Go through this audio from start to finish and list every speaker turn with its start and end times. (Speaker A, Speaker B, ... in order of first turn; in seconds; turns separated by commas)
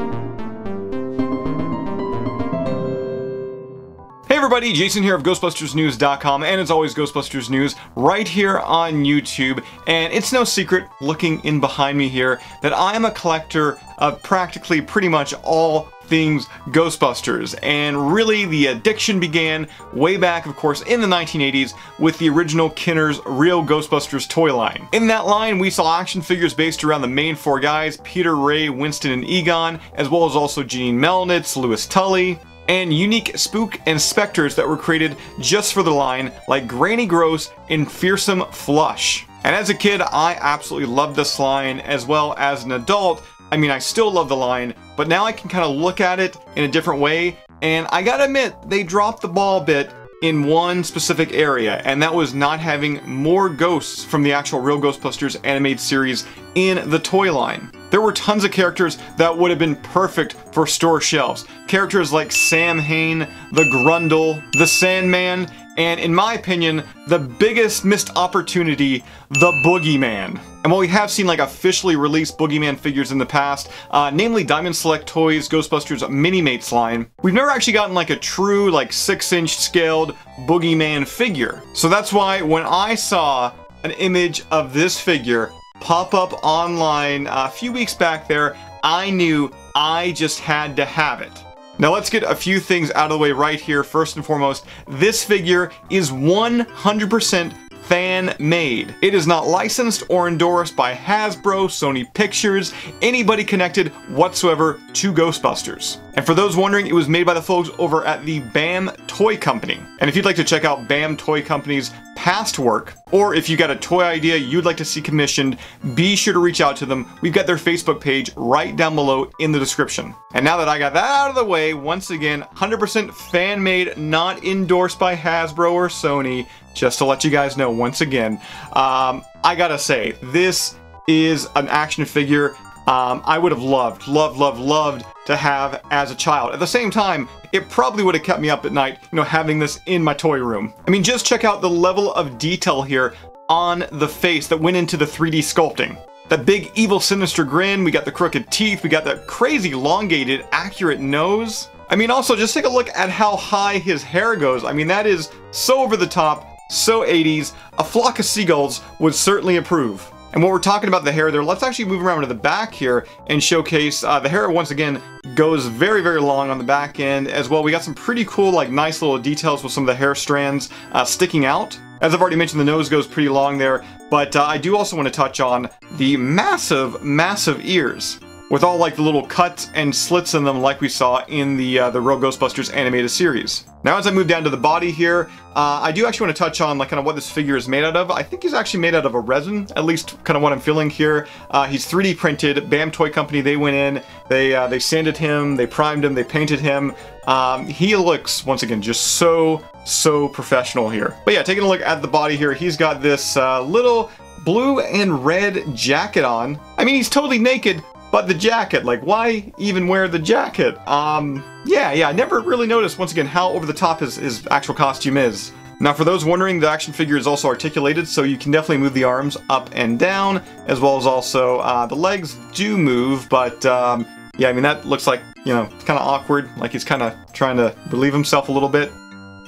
Speaker A: 4.3-228.9